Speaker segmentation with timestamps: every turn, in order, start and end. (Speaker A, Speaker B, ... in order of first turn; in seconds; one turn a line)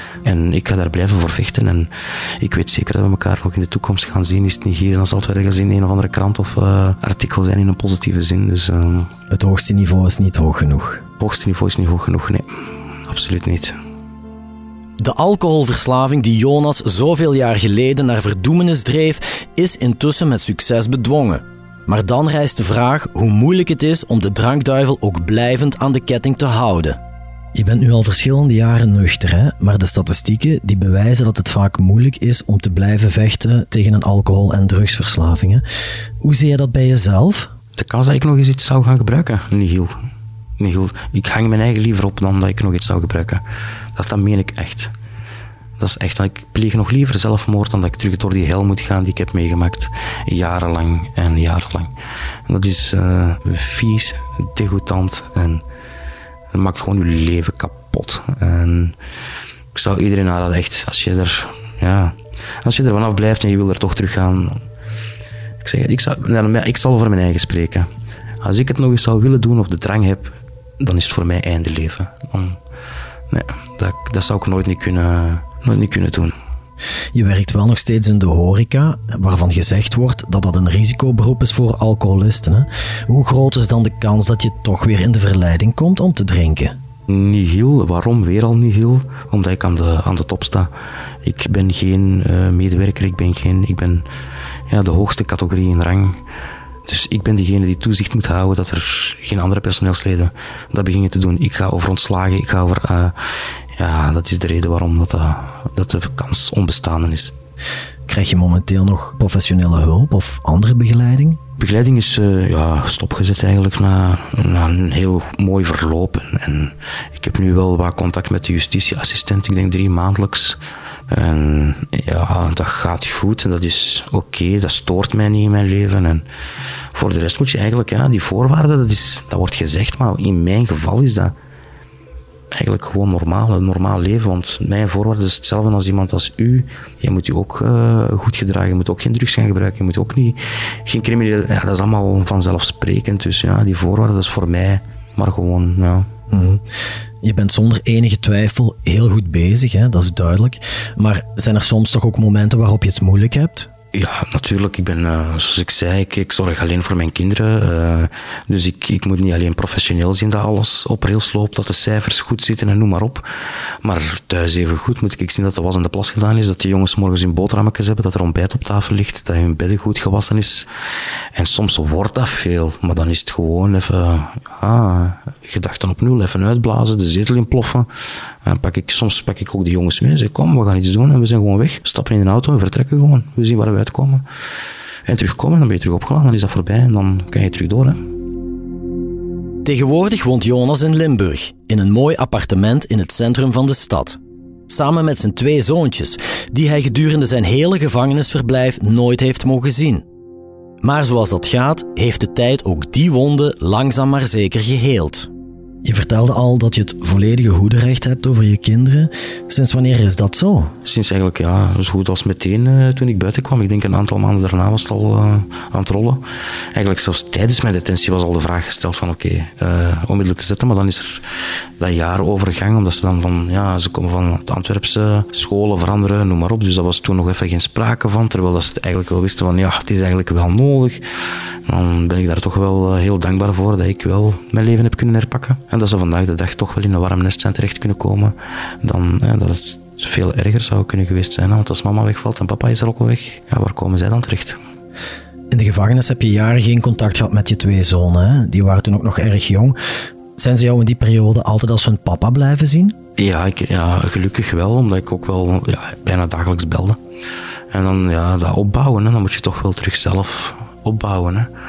Speaker A: 0.2-9.1
Speaker B: 9.3-11.0
Speaker A: 11.2-12.5
Speaker A: 13.0-13.7
Speaker B: 15.0-27.0
Speaker B: 27.5-35.6
Speaker B: 36.2-37.5
Speaker A: 37.7-39.9
Speaker A: 40.6-43.4
Speaker A: 43.9-44.9
Speaker A: 45.8-51.9
Speaker A: 52.5-55.6
Speaker A: 56.5-59.0
Speaker A: 59.7-64.6
Speaker A: 65.6-67.9
Speaker A: 68.4-72.6
Speaker A: 73.3-76.3
Speaker B: 77.1-86.8
Speaker A: 87.1-90.7
Speaker A: 91.2-94.0
Speaker A: 94.7-96.2
Speaker A: 96.8-103.2
Speaker A: 103.8-107.3
Speaker B: 108.1-111.4
Speaker A: 111.6-126.2
Speaker A: 126.9-131.3
Speaker A: 132.5-146.1
Speaker B: 146.3-146.6
Speaker B: 147.2-153.7
Speaker A: 153.9-163.2
Speaker A: 163.8-170.7
Speaker A: 171.3-177.9
Speaker A: 178.4-184.2
Speaker A: 185.1-188.0
Speaker B: 189.6-194.2
Speaker B: 194.7-200.0
Speaker B: 200.8-205.3
Speaker B: 205.8-210.7
Speaker A: 210.8-216.2
Speaker A: 216.7-221.2
Speaker A: 221.8-231.0
Speaker A: 231.7-244.6
Speaker B: 245.5-249.8
Speaker B: 250.4-252.9
Speaker A: 253.2-257.0
Speaker A: 257.7-261.5